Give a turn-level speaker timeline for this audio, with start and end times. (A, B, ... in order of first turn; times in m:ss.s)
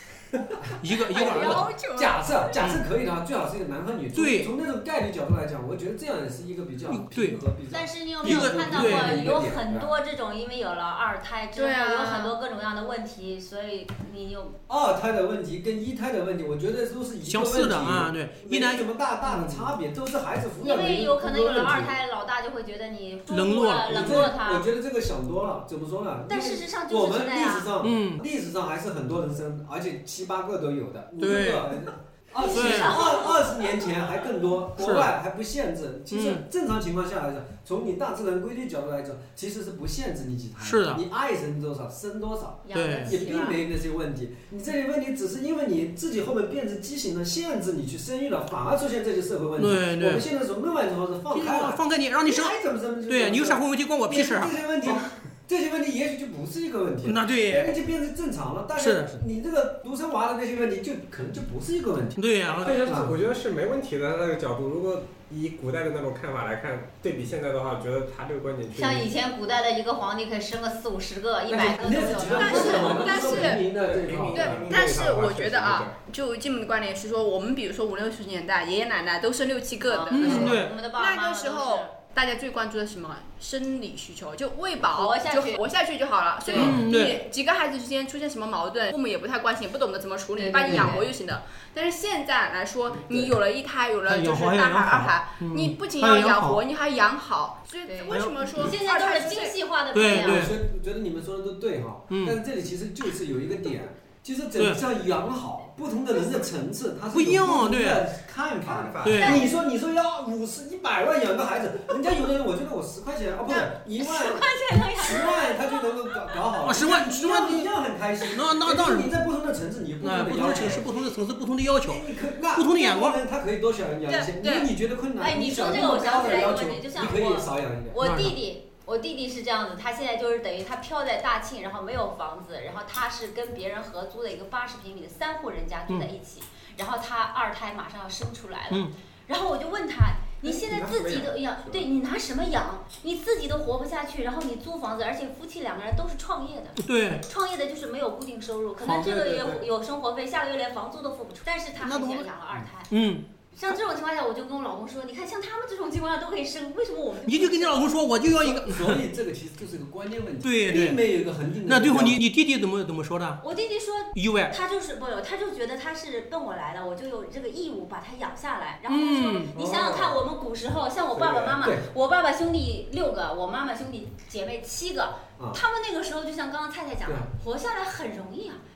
0:00.3-0:09.9 A
0:00.8-0:01.7 B
0:01.1-0:02.3 C
0:04.1-0:04.5 B
0:06.9-0:07.4 B
0:07.7-0:14.6 D
0:08.2-0:09.3 B
0:11.6-0:12.3 C
0:14.7-0:21.9 A
0:17.2-0:19.7 B
0:20.6-0:24.7 D
0:23.3-0:24.1 B
0:23.9-1:03.2 A
0:26.3-0:27.7 D
0:27.8-0:28.2 B
0:31.2-0:31.8 B
0:32.4-0:33.6 D
0:32.5-0:33.0 B
0:34.8-0:35.1 B
0:36.1-0:36.4 B
0:40.6-0:41.0 B
0:42.6-0:43.6 D
0:42.7-0:43.1 B
0:49.6-0:50.2 B
0:51.3-0:55.0 B
0:57.0-0:57.8 B
0:58.8-0:59.2 B
1:02.2-1:02.8 B
1:02.6-1:09.1 E
1:08.7-1:13.3 D
1:11.5-1:14.6 A
1:12.3-1:13.8 C
1:13.8-1:16.0 E
1:14.3-1:39.6 C
1:19.9-1:21.9 D
1:20.1-1:20.7 B
1:24.8-1:25.6 D
1:26.5-1:27.2 B
1:30.4-1:31.1 D
1:34.0-1:36.6 B
1:37.8-1:40.6 D
1:38.1-1:38.4 B
1:39.9-1:40.6 B
1:40.2-1:54.5 A
1:42.1-1:42.4 B
1:44.6-1:44.8 B
1:47.1-1:48.1 B
1:48.7-1:49.2 E
1:49.0-1:49.4 B
1:49.0-1:49.5 D
1:53.5-1:56.2 D
1:55.0-2:01.0 A
1:56.6-1:57.7 B
1:58.3-1:59.1 B
2:00.0-2:03.2 B
2:01.8-2:08.0 A
2:04.0-2:32.9 D
2:08.0-2:08.4 B
2:20.7-2:21.8 E
2:26.8-2:27.2 B
2:28.8-2:29.6 B
2:31.8-2:32.3 B
2:32.9-2:33.2 B
2:33.5-2:37.9 D
2:37.2-2:39.0 B
2:38.3-2:42.2 A
2:40.4-2:41.0 B
2:41.6-2:43.4 B
2:43.4-2:58.6 D
2:44.1-2:44.5 B
2:48.9-2:49.5 B
2:49.5-2:50.1 A
2:51.6-2:51.8 A